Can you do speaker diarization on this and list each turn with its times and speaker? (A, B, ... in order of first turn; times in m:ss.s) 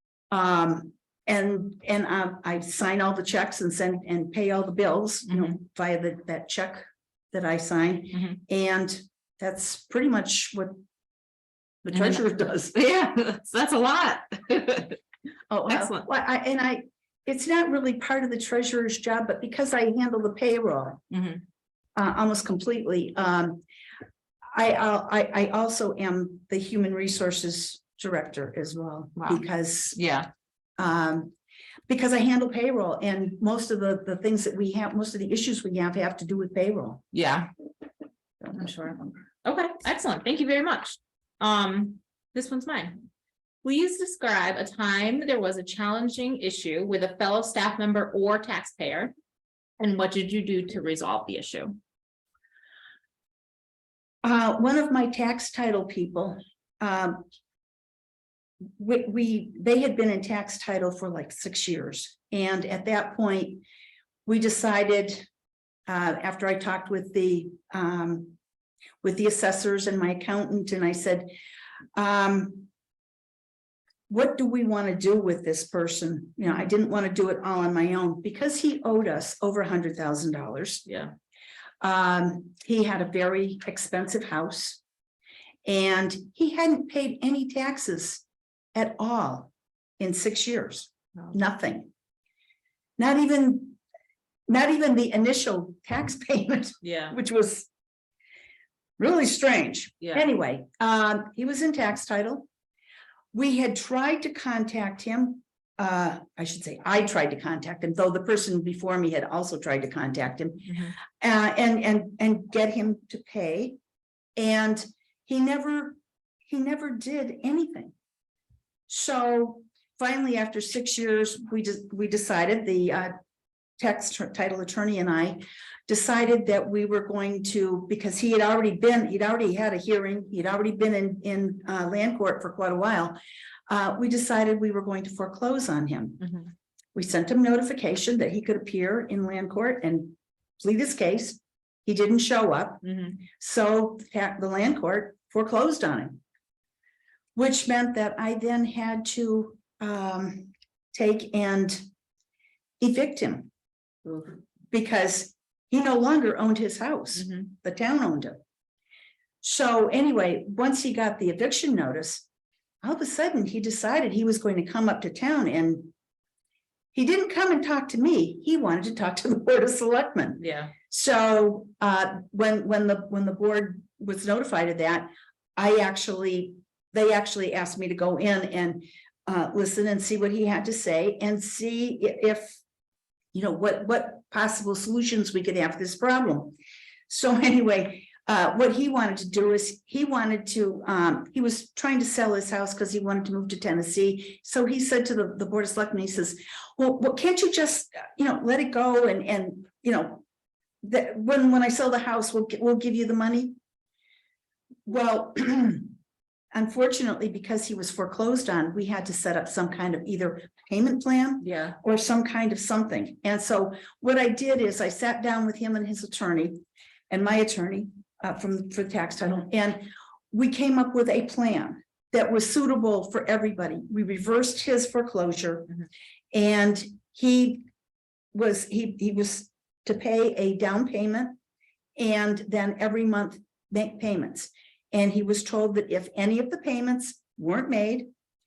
0:00.3-0:10.8 A
0:11.8-0:12.7 A
0:11.9-0:15.0 B
0:15.5-0:21.0 A
0:15.7-0:16.1 B
0:21.1-0:21.4 B
0:22.0-0:23.6 A
0:24.5-0:30.0 A
0:29.2-0:30.3 B
0:30.8-0:31.3 A
0:31.9-0:37.0 A
0:37.1-0:37.5 B
0:38.5-0:43.0 B
0:43.6-0:49.1 B
0:49.8-0:51.8 B
0:54.2-0:57.2 A
0:58.8-1:03.6 A
1:04.2-1:05.2 A
1:05.9-1:08.3 A
1:09.0-1:11.3 A
1:11.9-1:12.7 A
1:14.1-1:20.8 A
1:20.8-1:21.1 B
1:21.8-1:24.8 A
1:25.6-1:28.2 A
1:28.7-1:31.9 A
1:33.0-1:33.8 A
1:34.5-1:37.7 A
1:36.8-1:37.2 B
1:39.0-1:42.5 A
1:43.3-1:53.8 A
1:54.4-1:56.0 A
1:56.5-1:57.9 A
1:58.9-2:03.1 A
2:03.8-2:13.2 A
2:13.7-2:16.4 A
2:16.9-2:26.2 A
2:22.8-2:23.1 B
2:27.3-2:31.8 A
2:32.8-2:33.5 A
2:34.0-2:34.3 B
2:34.7-2:38.4 A
2:39.4-2:42.2 A
2:42.8-2:45.9 A
2:46.9-3:02.6 A
2:50.4-2:50.7 B
3:03.3-3:06.6 A
3:07.1-3:20.2 A
3:20.8-3:23.5 A
3:24.8-3:25.9 A
3:26.5-3:45.7 A
3:31.4-3:31.8 B
3:46.3-3:47.6 A
3:48.3-3:51.4 A
3:52.0-3:58.1 A